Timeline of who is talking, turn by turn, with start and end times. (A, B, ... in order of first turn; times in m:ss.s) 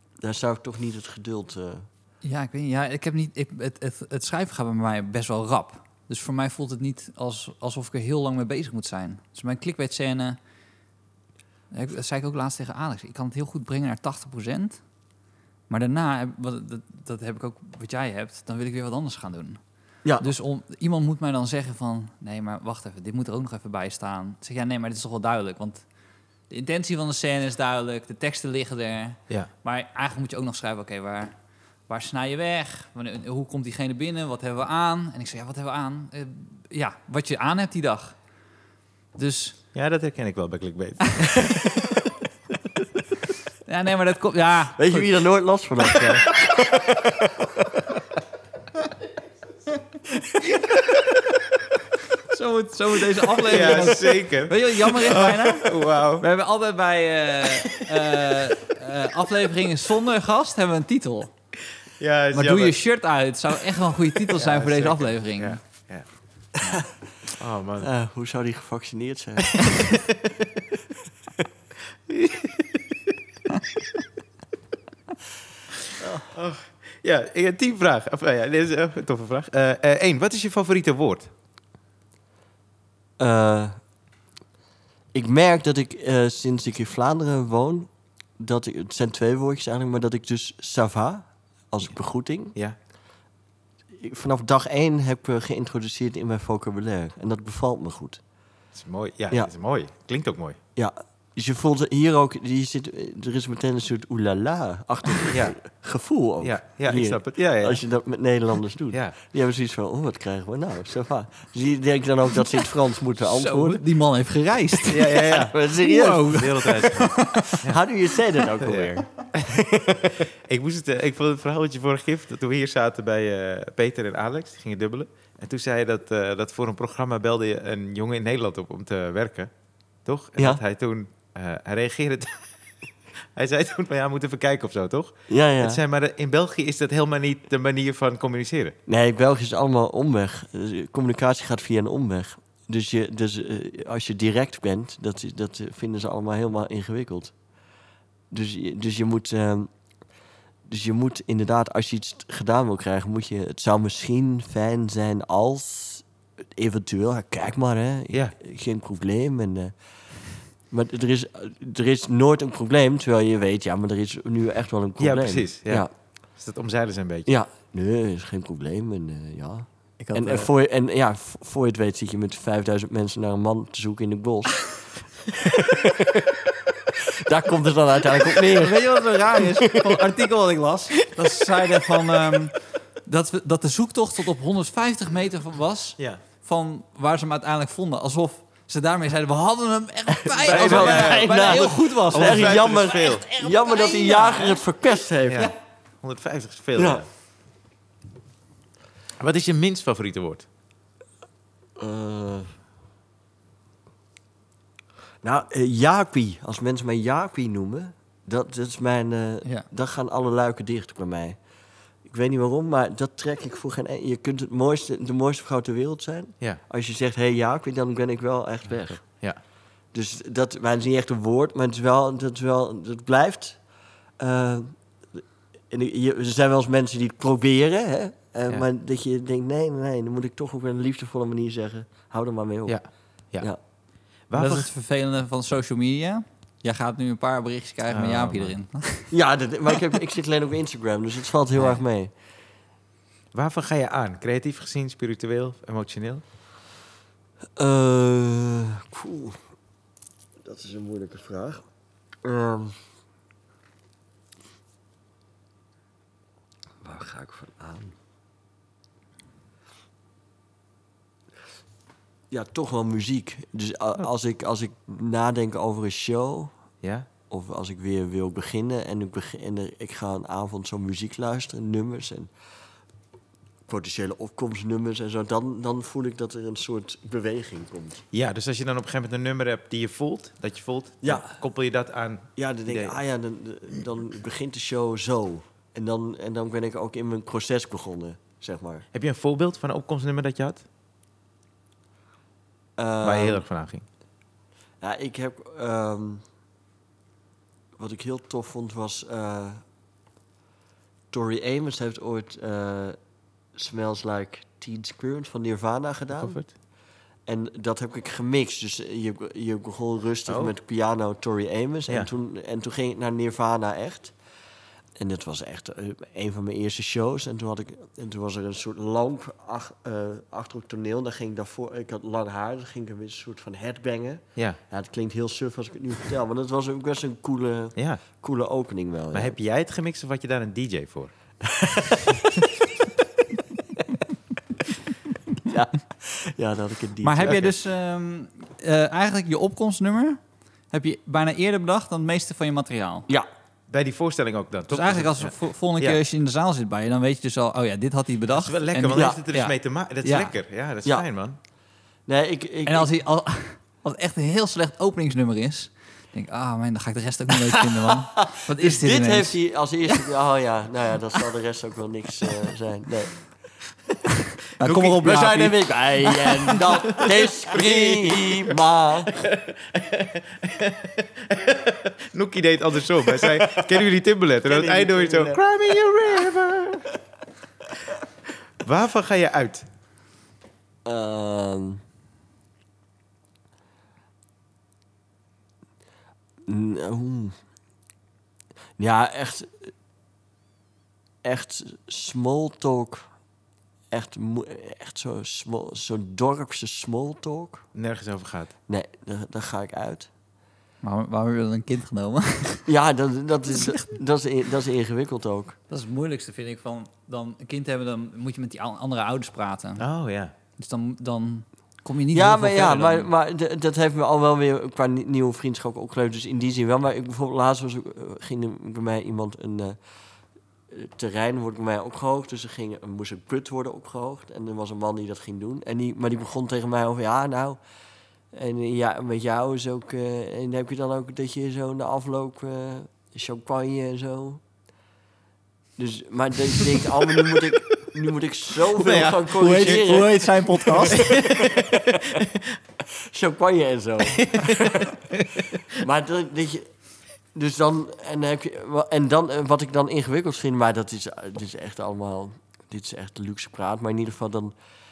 0:00.2-0:01.9 A
0:02.2-0:10.4 B
0:11.7-0:14.8 B
0:15.7-0:19.6 B
0:20.2-0:25.8 B
0:26.5-0:31.3 B
0:31.9-0:38.2 B
0:39.1-0:39.6 B
0:39.7-0:41.9 C
0:43.6-0:45.1 B
0:44.8-0:48.0 A
0:52.1-1:01.3 B
0:53.4-0:56.2 C
1:02.0-1:02.8 C
1:02.3-1:05.6 B
1:04.3-1:06.0 C
1:07.4-1:07.9 C
1:07.8-1:10.0 A
1:09.6-1:10.2 C
1:12.1-1:12.9 C
1:16.0-1:16.2 A
1:16.3-1:21.3 C
1:23.2-1:23.8 A
1:25.1-1:32.6 A
1:33.9-1:38.2 A
1:38.7-1:40.6 C
1:40.8-1:53.8 A
1:45.3-1:45.6 C
1:46.4-1:47.8 C
1:53.2-1:57.6 B
1:54.9-1:55.5 C
1:55.1-1:56.5 A
1:56.3-1:57.8 C
1:57.6-2:00.2 A
1:58.6-1:59.6 C
2:00.1-2:09.5 C
2:10.0-2:12.5 C
2:13.4-2:18.8 C
2:15.3-2:15.8 A
2:18.9-2:27.3 A
2:28.3-2:29.7 A
2:30.6-2:36.0 A
2:36.6-2:39.7 A
2:40.7-2:45.9 A
2:45.0-2:47.3 C
2:47.3-3:00.1 A
2:50.0-2:50.5 B
2:58.5-3:14.6 B
3:10.4-3:13.2 C
3:10.4-3:15.5 A
3:15.3-3:17.1 C
3:16.8-3:17.0 A
3:19.2-3:20.4 C
3:21.8-3:22.5 A
3:25.2-3:31.4 A
3:32.0-3:39.0 A
3:39.9-3:43.6 A
3:44.2-3:52.8 A
3:52.7-3:53.5 C
3:54.3-3:54.7 C
3:54.3-3:59.1 B
3:57.9-3:58.5 C
3:59.1-4:02.1 A
4:03.3-4:06.2 C
4:07.6-4:09.4 A
4:10.4-4:11.6 A
4:12.2-4:12.8 A
4:16.8-4:18.0 A
4:22.3-4:26.5 A
4:26.8-4:27.1 C
4:27.3-4:32.3 A
4:33.7-4:38.0 A
4:38.1-4:43.0 C
4:42.4-4:48.8 A
4:48.9-4:50.6 C
4:52.8-4:53.4 A
4:53.0-4:53.8 C
4:54.8-4:56.2 A
4:57.8-4:59.6 A
5:01.1-5:03.0 A
5:03.6-5:06.4 A
5:06.1-5:06.5 C
5:07.3-5:14.1 A
5:10.2-5:10.5 C
5:15.0-5:29.4 A
5:27.8-5:28.0 C
5:29.1-5:31.1 C
5:31.4-5:32.3 A
5:35.4-5:37.4 A
5:37.0-5:40.2 B
5:37.2-5:37.5 C
5:40.7-5:43.1 B
5:43.7-5:46.0 C
5:44.7-5:49.5 B
5:48.4-5:51.4 C
5:48.9-5:49.2 A
5:50.0-5:50.3 B
5:52.1-5:52.9 A
5:52.7-5:59.4 B
5:57.8-6:03.2 A
6:04.6-6:06.8 B
6:04.6-6:05.2 C
6:05.0-6:09.2 A
6:06.7-6:08.6 C
6:09.2-6:16.9 C
6:13.2-6:13.6 A
6:14.4-6:15.4 A
6:18.6-6:19.6 C
6:20.8-6:21.8 A
6:26.4-6:27.3 A
6:28.8-6:29.7 A
6:31.2-6:33.1 A
6:33.9-6:37.6 A
6:37.7-6:38.5 C
6:38.7-6:40.1 A
6:40.8-6:42.7 B
6:42.7-6:45.6 A
6:43.5-6:43.8 B
6:45.7-6:49.8 B
6:49.8-6:50.3 C
6:50.6-6:53.1 B
6:52.1-6:59.8 A
7:00.7-7:07.6 A
7:08.3-7:14.4 A
7:15.8-7:22.2 A
7:18.8-7:19.8 C
7:19.4-7:21.1 B
7:20.9-7:22.6 C
7:22.9-7:25.0 A
7:24.1-7:25.3 C
7:25.7-7:26.7 A
7:27.3-7:34.5 A